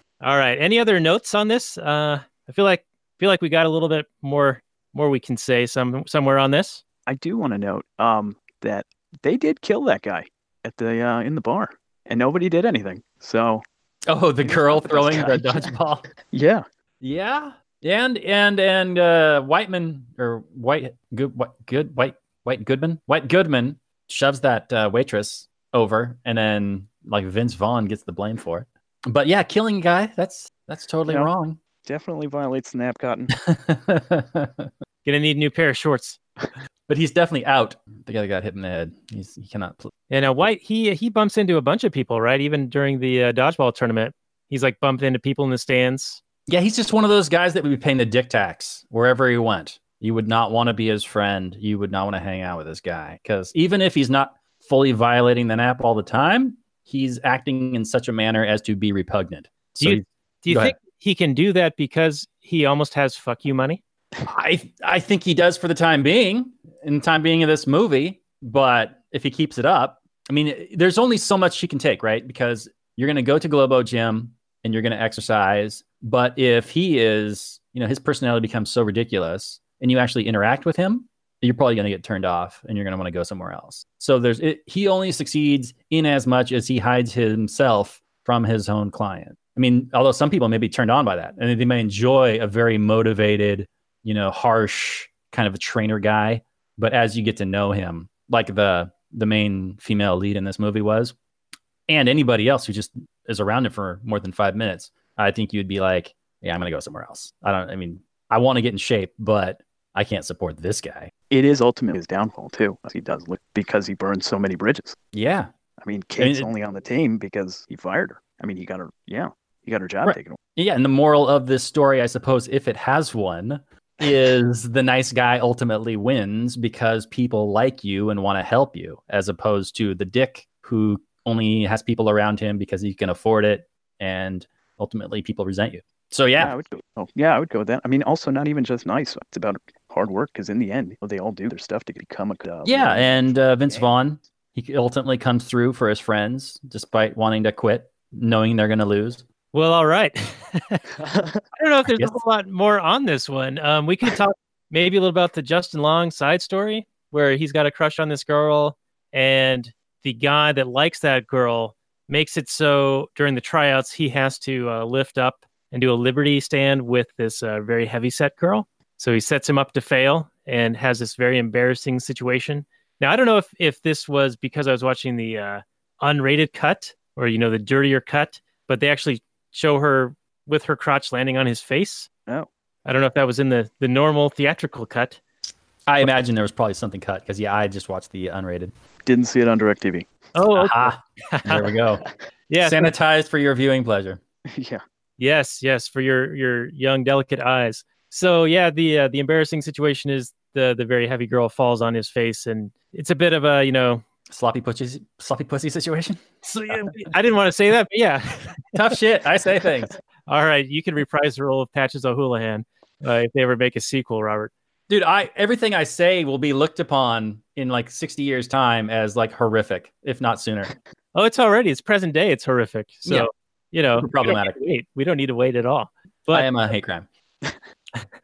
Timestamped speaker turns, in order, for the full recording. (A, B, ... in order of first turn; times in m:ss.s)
0:00.2-0:06.8 A
0:07.1-0:13.6 B
0:14.1-0:16.1 C
0:14.4-0:15.7 B
0:16.3-0:16.6 B
0:17.0-0:31.6 C
0:31.8-0:33.3 B
0:33.3-0:34.7 C
0:35.0-0:36.2 A
0:36.9-0:39.9 C
0:40.1-0:46.2 A
0:46.5-1:00.8 C
0:59.8-1:03.8 A
1:04.3-1:41.2 C
1:41.9-1:51.1 C
1:51.3-1:55.0 B
1:55.1-1:55.5 C
1:55.8-2:00.4 B
1:56.2-1:56.5 C
2:00.0-2:16.5 C
2:16.4-2:23.8 B
2:22.6-2:29.2 C
2:29.5-2:30.8 A
2:31.0-2:31.4 B
2:31.5-3:02.1 A
3:02.8-3:05.2 A
3:05.9-3:08.7 C
3:09.0-3:10.1 B
3:10.3-3:11.7 A
3:10.5-3:12.0 C
3:12.5-3:12.9 A
3:12.6-3:14.2 C
3:14.5-3:14.8 B
3:15.2-3:24.0 A
3:24.3-3:26.9 C
3:26.4-3:28.6 A
3:28.7-3:29.9 C
3:30.3-3:34.5 A
3:34.9-3:40.7 C
3:41.1-3:46.5 A
3:44.0-3:44.6 C
3:46.3-3:47.1 C